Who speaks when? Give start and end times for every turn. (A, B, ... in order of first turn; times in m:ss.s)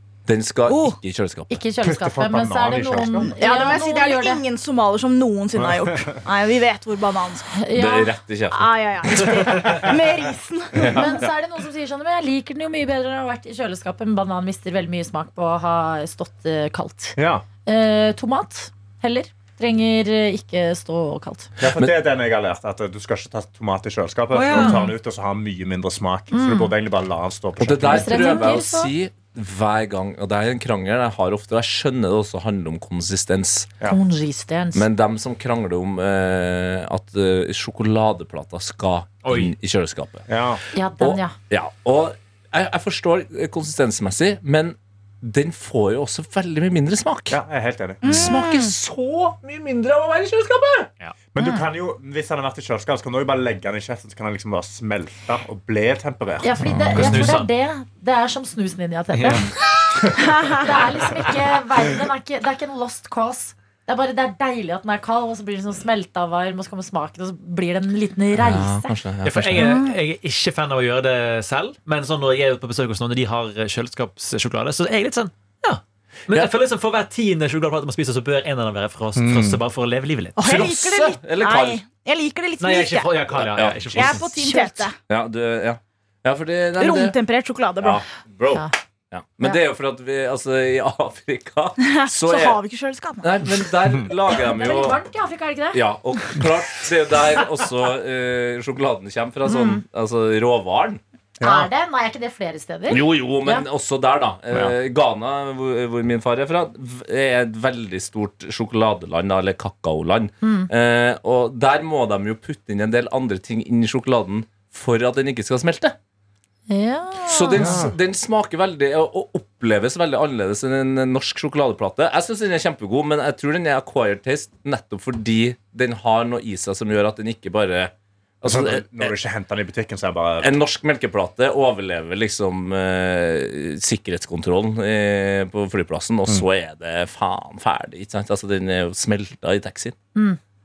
0:00.2-0:01.5 A
0:00.7-0:01.0 B
0:01.5-0:04.4 C
0:01.8-0:03.4 D
0:03.1-0:07.6 B
0:05.6-0:06.2 D
0:07.5-0:08.2 C
0:07.7-0:09.3 A
0:08.5-0:11.1 B
0:10.8-0:11.2 A
0:10.8-0:21.5 C
0:17.2-0:17.4 D
0:21.6-0:28.5 D
0:21.6-0:21.9 A
0:24.3-0:24.9 C
0:26.3-0:26.7 C
0:27.6-0:33.7 A
0:27.8-0:28.9 C
0:33.8-0:34.9 C
0:34.7-0:40.2 A
0:39.2-0:39.5 E
0:40.3-0:40.6 D
0:40.7-0:41.4 C
0:41.0-0:47.4 A
0:47.3-0:48.3 D
0:48.0-0:48.7 B
0:48.0-0:50.9 A
0:51.3-0:56.5 D
0:56.4-1:08.9 C
0:56.7-0:57.2 A
0:56.7-0:57.5 E
0:59.1-0:59.5 E
1:00.2-1:00.6 B
1:08.3-1:09.7 A
1:09.2-1:20.4 E
1:09.6-1:09.8 C
1:19.1-1:19.6 D
1:20.4-1:23.3 B
1:20.4-1:21.8 A
1:22.6-1:24.5 E
1:23.3-1:24.2 A
1:23.9-1:25.0 B
1:24.4-1:24.9 C
1:25.1-1:27.2 A
1:26.8-1:28.0 B
1:27.8-1:32.6 A
1:31.8-1:33.3 B
1:33.2-1:35.0 A
1:34.3-1:35.8 C
1:35.7-1:41.0 A
1:39.4-1:39.8 C
1:41.4-1:41.7 D
1:41.4-1:43.6 C
1:42.9-1:56.0 A
1:44.5-1:44.8 D
1:50.4-1:50.7 C
1:56.7-1:57.9 C
1:57.2-2:09.1 A
1:57.5-1:57.9 D
2:08.4-2:10.6 D
2:10.4-2:20.0 A